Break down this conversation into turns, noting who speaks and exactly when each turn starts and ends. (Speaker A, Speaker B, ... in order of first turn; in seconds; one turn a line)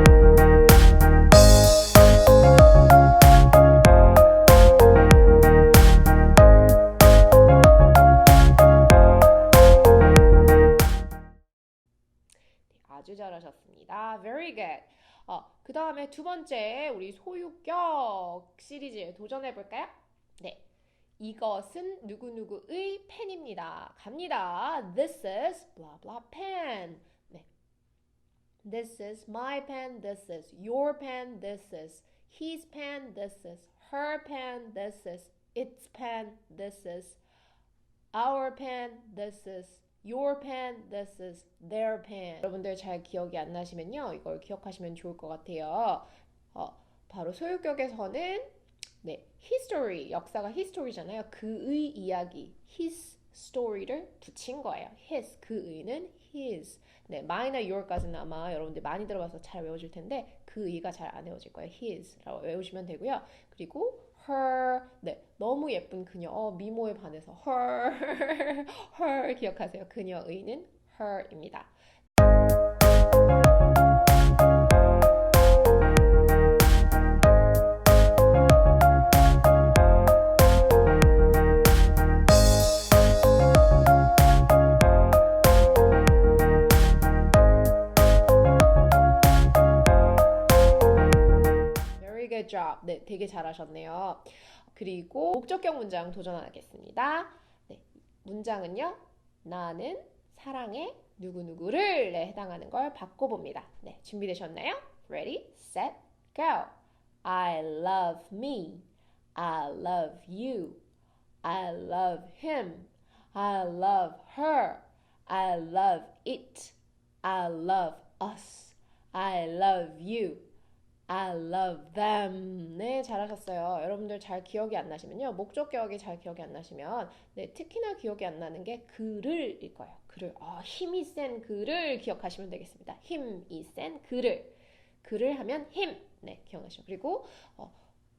Speaker A: 12.7-20.6
Speaker A: 21.2-27.5
Speaker A: 28.6-37.2
Speaker A: 38.1-48.5
Speaker A: 49.0-71.7
Speaker A: 92.0-110.8
Speaker A: 111.4-120.5
Speaker A: 121.1-137.8